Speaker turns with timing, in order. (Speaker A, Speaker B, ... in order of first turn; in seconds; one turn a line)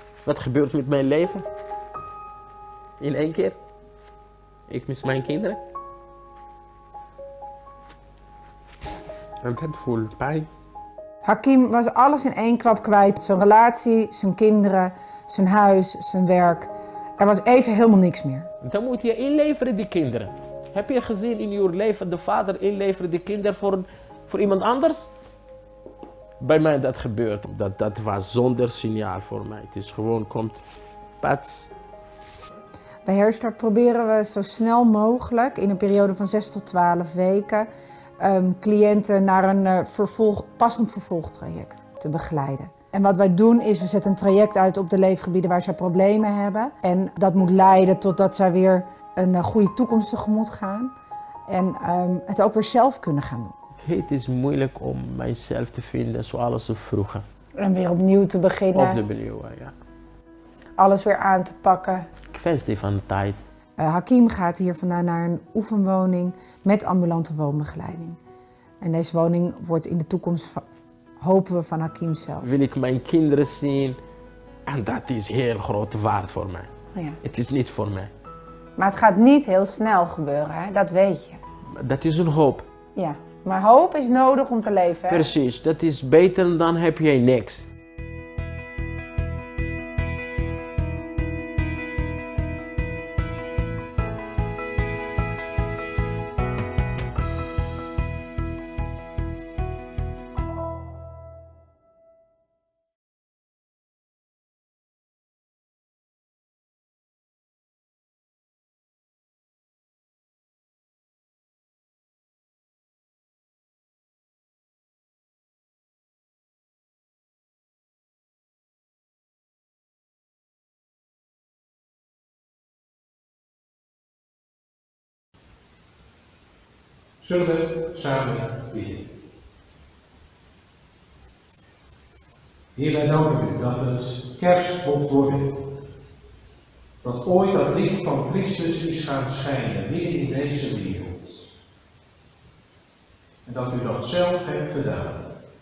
Speaker A: 0.2-1.4
Speaker A: 3.0-3.6
Speaker A: 4.7-5.6
Speaker A: 9.4-10.5
Speaker B: 11.2-18.5
Speaker A: 18.6-25.1
Speaker A: 26.4-30.6
Speaker A: 31.2-31.7
Speaker B: 33.0-37.7
Speaker B: 38.2-50.9
Speaker B: 51.5-53.5
Speaker A: 53.8-57.2
Speaker B: 57.6-59.0
Speaker A: 58.7-59.7
Speaker B: 60.8-62.1
Speaker A: 62.3-63.4
Speaker B: 63.8-68.2
Speaker B: 68.8-70.6
Speaker B: 71.2-72.5
Speaker A: 72.4-74.0
Speaker A: 74.7-76.7
Speaker A: 77.2-78.1
Speaker B: 78.8-81.4
Speaker A: 81.7-82.7
Speaker B: 83.0-85.3
Speaker A: 85.1-87.6
Speaker C: 127.2-129.1
Speaker C: 132.7-135.7
Speaker C: 137.0-141.5
Speaker C: 143.4-145.2